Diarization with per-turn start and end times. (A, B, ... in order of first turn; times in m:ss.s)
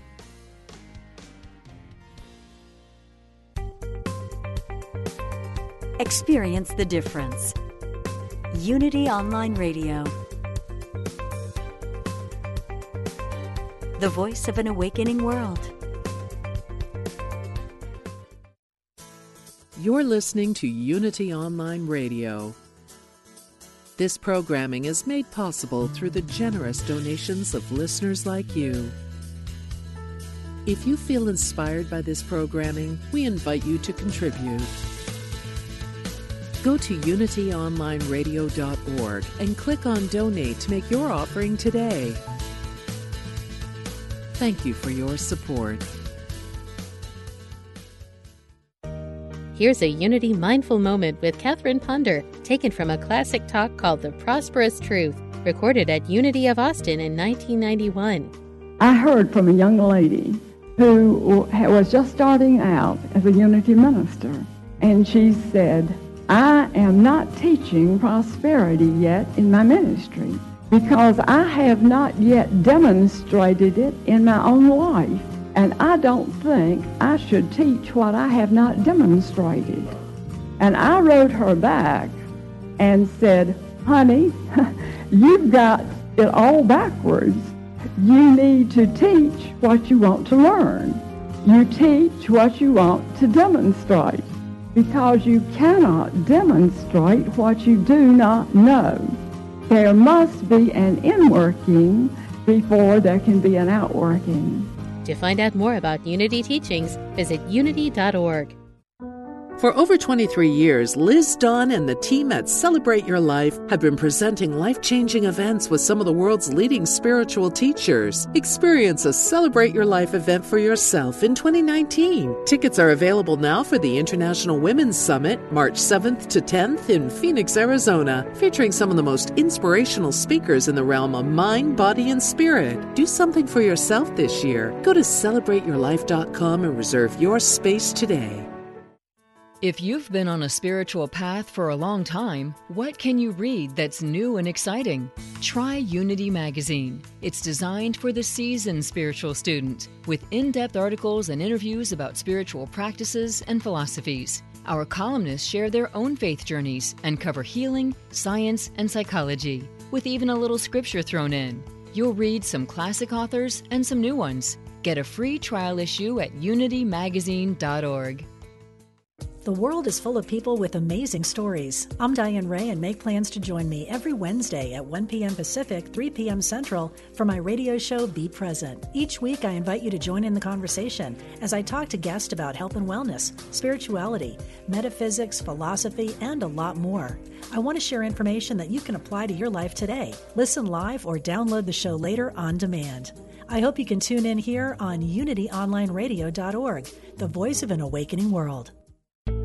0:06.0-0:07.5 A
0:08.5-0:10.1 A
0:14.0-0:15.7 A
0:19.7-0:22.6 B
0:24.0-0:29.0 B
0:30.6-0:34.7 B
0:36.6-0:42.2 B
0:44.4-0:45.9 B
0:49.5-0:58.3 C
0:58.8-1:19.9 D
1:20.6-1:22.2 D
1:22.8-1:39.1 D
1:39.7-1:44.7 D
1:45.0-1:48.6 C
1:49.6-2:18.5 B
2:19.6-2:48.3 E
2:49.4-3:18.7 F